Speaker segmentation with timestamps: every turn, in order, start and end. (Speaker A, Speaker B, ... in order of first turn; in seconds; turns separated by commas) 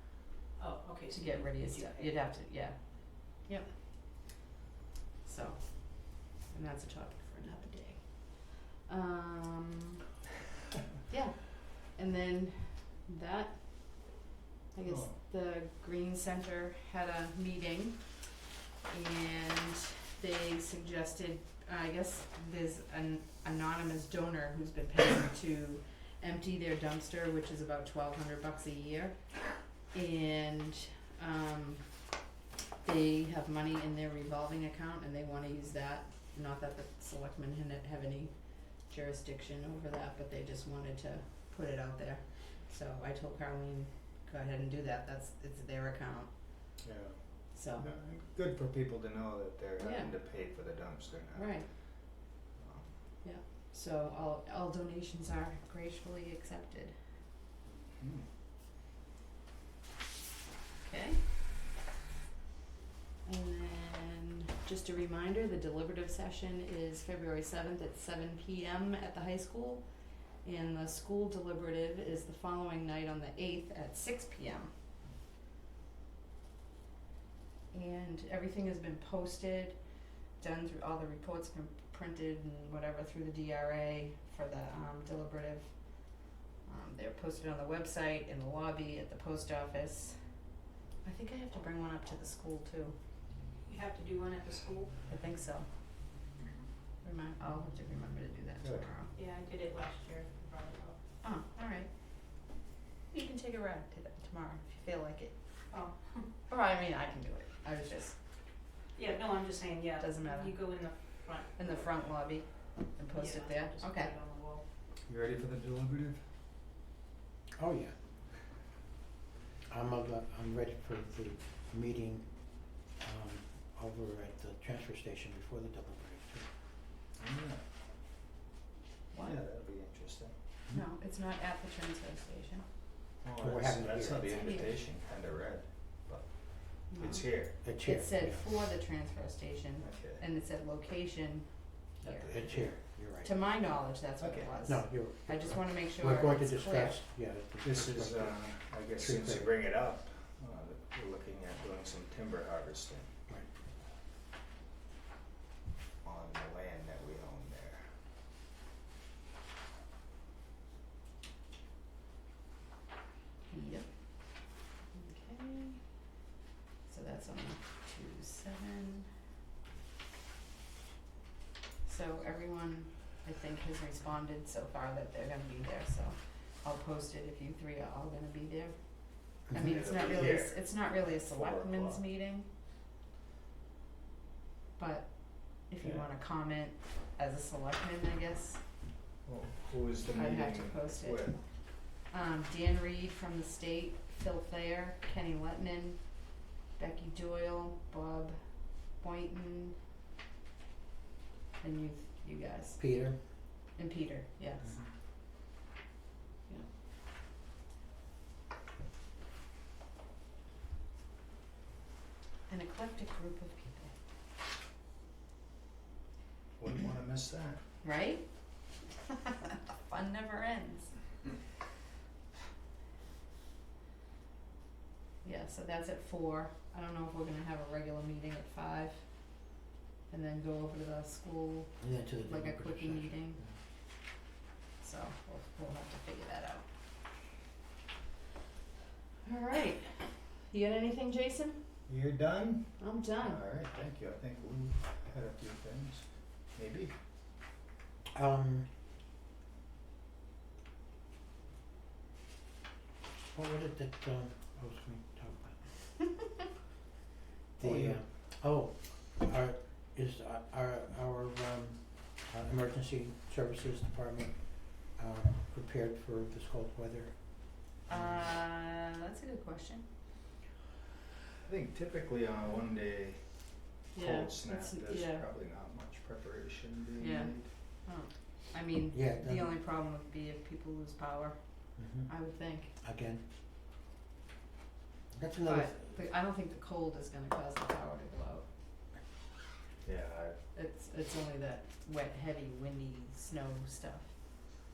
Speaker A: 0.6-2.1, Speaker B: 1.1-4.3, Speaker B: 5.2-10.0, Speaker B: 11.1-18.3, Speaker C: 14.8-15.2, Speaker B: 18.9-32.0, Speaker B: 32.8-46.7, Speaker C: 46.8-53.0, Speaker B: 47.5-47.9, Speaker B: 49.8-50.8, Speaker B: 51.4-51.7, Speaker B: 53.2-57.0, Speaker C: 57.7-58.3, Speaker B: 60.8-61.5, Speaker B: 63.2-74.7, Speaker B: 77.7-93.0, Speaker A: 93.6-94.9, Speaker B: 95.1-95.7, Speaker B: 97.0-99.1, Speaker C: 98.6-98.9, Speaker A: 99.1-101.0, Speaker B: 101.2-102.2, Speaker B: 103.1-105.7, Speaker A: 105.7-106.3, Speaker B: 106.5-108.2, Speaker A: 109.0-111.8, Speaker B: 110.0-114.1, Speaker A: 113.1-114.6, Speaker C: 115.0-116.2, Speaker D: 117.6-118.0, Speaker D: 119.7-126.5, Speaker C: 127.2-127.6, Speaker B: 129.1-129.4, Speaker C: 129.2-130.3, Speaker B: 130.7-132.7, Speaker C: 133.2-137.5, Speaker D: 133.4-134.5, Speaker B: 134.3-134.7, Speaker B: 136.9-142.3, Speaker D: 137.6-138.5, Speaker C: 139.8-140.2, Speaker C: 142.0-142.8, Speaker D: 142.0-143.3, Speaker B: 143.2-147.0, Speaker C: 144.2-144.6, Speaker D: 144.7-149.5, Speaker C: 147.6-153.1, Speaker C: 156.0-158.0, Speaker B: 163.5-165.9, Speaker B: 166.8-169.1, Speaker B: 171.8-182.5, Speaker C: 179.6-182.0, Speaker B: 184.8-188.7, Speaker C: 185.8-186.1, Speaker C: 189.2-191.4, Speaker B: 190.1-199.8, Speaker B: 201.6-204.8, Speaker D: 202.8-203.2, Speaker B: 212.5-213.9, Speaker C: 216.6-217.6, Speaker B: 217.8-218.7, Speaker B: 219.7-221.1, Speaker B: 225.2-229.5, Speaker B: 230.1-233.4, Speaker D: 231.8-233.5, Speaker B: 234.8-236.7, Speaker B: 239.2-241.6, Speaker C: 241.9-246.9, Speaker B: 242.8-243.4, Speaker D: 248.1-248.7, Speaker D: 253.3-256.3, Speaker C: 257.6-258.0, Speaker D: 257.6-268.1, Speaker B: 267.9-269.9, Speaker C: 271.4-277.5, Speaker B: 273.9-275.2, Speaker B: 277.0-282.7, Speaker D: 278.9-279.5, Speaker D: 281.8-283.2, Speaker D: 285.1-285.9, Speaker B: 285.4-288.5, Speaker C: 289.8-290.4, Speaker B: 290.5-294.1